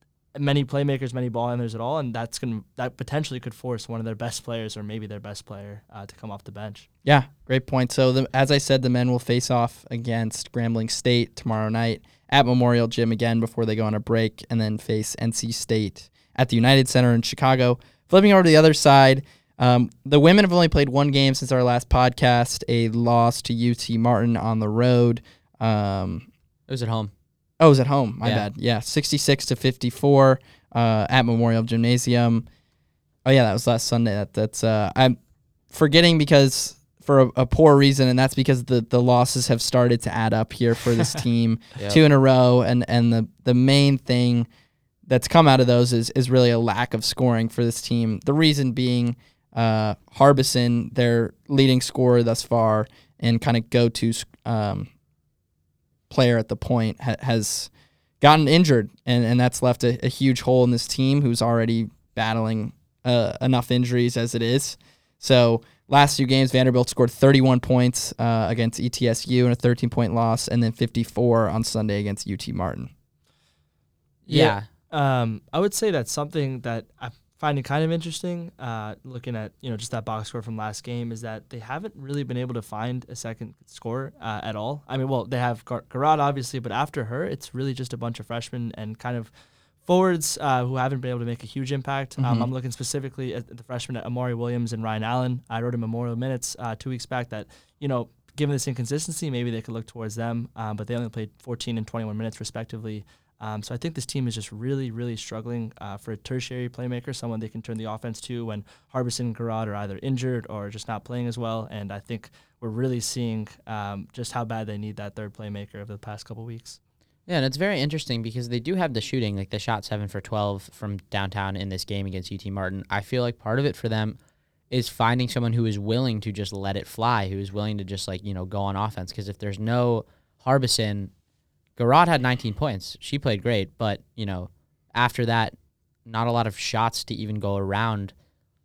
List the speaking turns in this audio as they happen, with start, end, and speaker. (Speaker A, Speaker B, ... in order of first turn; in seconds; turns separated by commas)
Speaker A: 0.3-6.9, Speaker B: 7.0-26.3, Speaker C: 26.7-27.1, Speaker B: 27.6-32.5, Speaker B: 33.2-35.2, Speaker B: 35.7-44.5, Speaker B: 45.1-54.9, Speaker B: 56.1-57.7, Speaker B: 58.2-72.9, Speaker A: 74.3-89.3, Speaker C: 74.3-74.7, Speaker A: 89.8-116.8, Speaker B: 92.2-92.5, Speaker C: 117.3-124.2, Speaker C: 124.7-131.1, Speaker C: 131.8-135.5, Speaker C: 136.1-138.1